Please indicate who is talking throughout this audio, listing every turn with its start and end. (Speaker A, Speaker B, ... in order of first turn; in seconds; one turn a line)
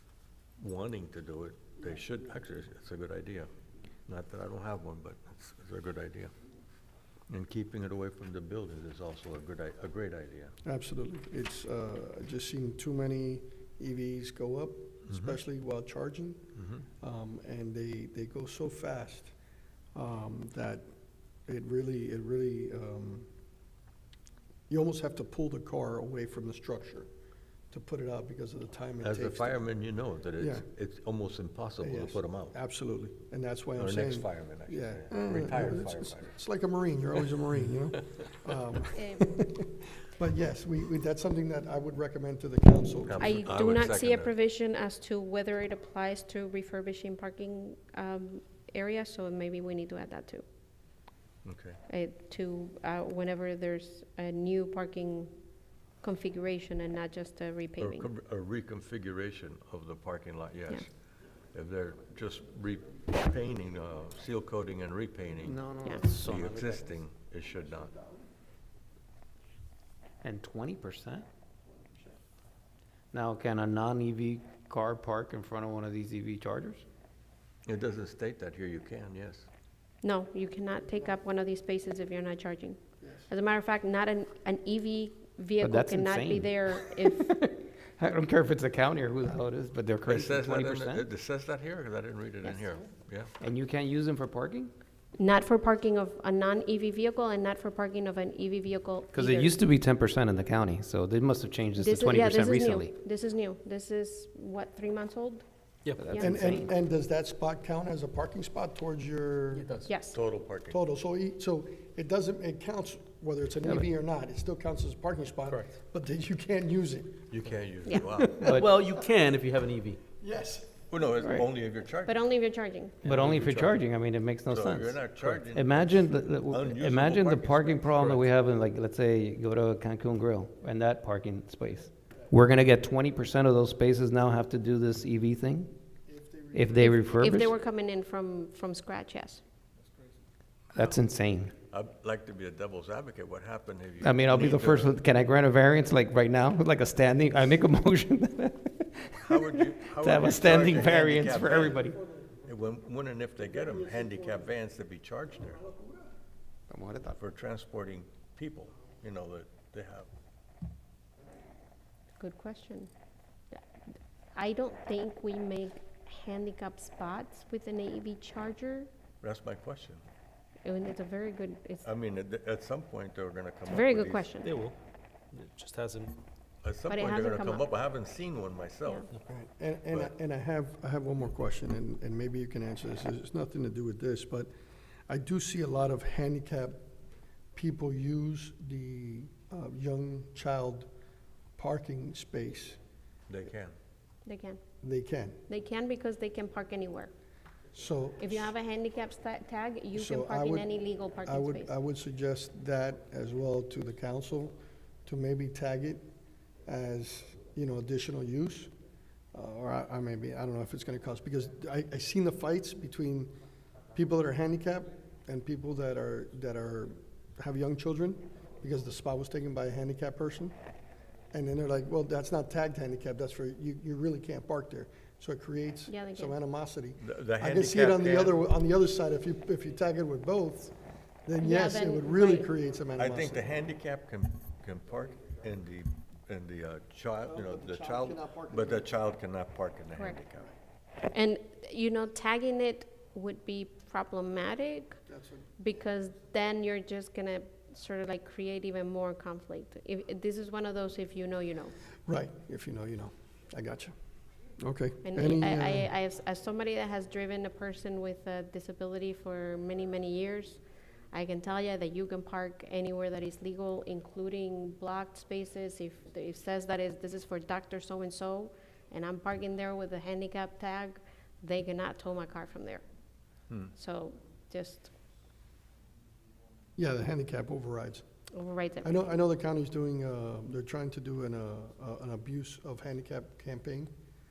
Speaker A: 0.6-3.5
Speaker A: 4.1-6.3
Speaker A: 7.3-10.5
Speaker B: 10.6-19.3
Speaker A: 15.1-15.4
Speaker B: 19.9-20.8
Speaker B: 21.5-23.3
Speaker B: 24.7-27.1
Speaker B: 27.7-29.6
Speaker A: 29.0-32.5
Speaker B: 30.4-30.6
Speaker B: 31.8-43.4
Speaker A: 33.8-36.4
Speaker C: 38.9-39.3
Speaker A: 43.0-44.3
Speaker C: 43.2-50.4
Speaker A: 51.4-51.8
Speaker C: 51.9-55.3
Speaker C: 56.0-58.1
Speaker A: 57.8-60.9
Speaker A: 61.5-65.6
Speaker D: 65.4-66.8
Speaker A: 66.1-67.9
Speaker D: 70.2-71.3
Speaker D: 73.1-76.8
Speaker A: 77.7-79.5
Speaker C: 80.0-87.3
Speaker B: 83.0-83.3
Speaker D: 85.6-91.1
Speaker A: 90.0-93.3
Speaker D: 93.4-94.7
Speaker C: 95.2-99.5
Speaker D: 99.1-102.9
Speaker C: 101.8-105.4
Speaker E: 105.8-106.1
Speaker D: 106.0-106.7
Speaker C: 106.1-106.5
Speaker B: 106.1-109.7
Speaker E: 109.5-109.9
Speaker C: 109.8-110.2
Speaker A: 110.1-110.8
Speaker B: 110.7-117.3
Speaker E: 115.5-115.8
Speaker A: 117.3-118.6
Speaker D: 118.2-118.7
Speaker E: 118.5-120.0
Speaker B: 120.2-120.8
Speaker A: 120.9-122.2
Speaker C: 122.0-123.0
Speaker A: 123.0-123.9
Speaker D: 123.0-135.7
Speaker A: 124.5-128.3
Speaker B: 136.1-136.9
Speaker D: 136.5-137.5
Speaker C: 136.7-139.4
Speaker D: 140.7-141.5
Speaker A: 141.7-144.9
Speaker D: 144.0-152.0
Speaker A: 149.2-151.9
Speaker A: 152.4-155.7
Speaker D: 156.7-157.2
Speaker A: 157.2-160.1
Speaker C: 162.2-162.9
Speaker C: 164.3-168.9
Speaker A: 169.2-170.0
Speaker C: 170.6-171.8
Speaker A: 171.8-174.3
Speaker C: 173.7-174.5
Speaker E: 174.4-174.8
Speaker E: 175.3-176.2
Speaker A: 176.6-179.1
Speaker C: 176.9-177.7
Speaker B: 179.3-184.5
Speaker B: 185.1-186.8
Speaker B: 187.5-190.9
Speaker B: 191.6-192.8
Speaker A: 193.3-193.7
Speaker C: 194.2-194.6
Speaker B: 194.8-195.4
Speaker C: 195.5-197.1
Speaker B: 197.7-198.5
Speaker C: 198.2-201.7
Speaker B: 199.9-200.7
Speaker B: 201.2-204.5
Speaker B: 205.0-206.0
Speaker B: 206.7-208.7
Speaker B: 209.3-213.3
Speaker B: 213.9-220.5
Speaker B: 221.3-233.5
Speaker C: 225.9-226.3
Speaker A: 227.0-228.4
Speaker C: 231.4-232.5
Speaker A: 233.0-240.5
Speaker B: 237.3-238.9
Speaker C: 239.9-240.2
Speaker C: 241.1-245.0
Speaker B: 245.1-245.5
Speaker C: 245.6-251.7
Speaker B: 252.1-253.9
Speaker B: 254.6-255.9
Speaker C: 255.0-272.8
Speaker C: 273.7-274.9
Speaker B: 276.8-278.0
Speaker C: 278.3-279.0
Speaker B: 278.8-283.9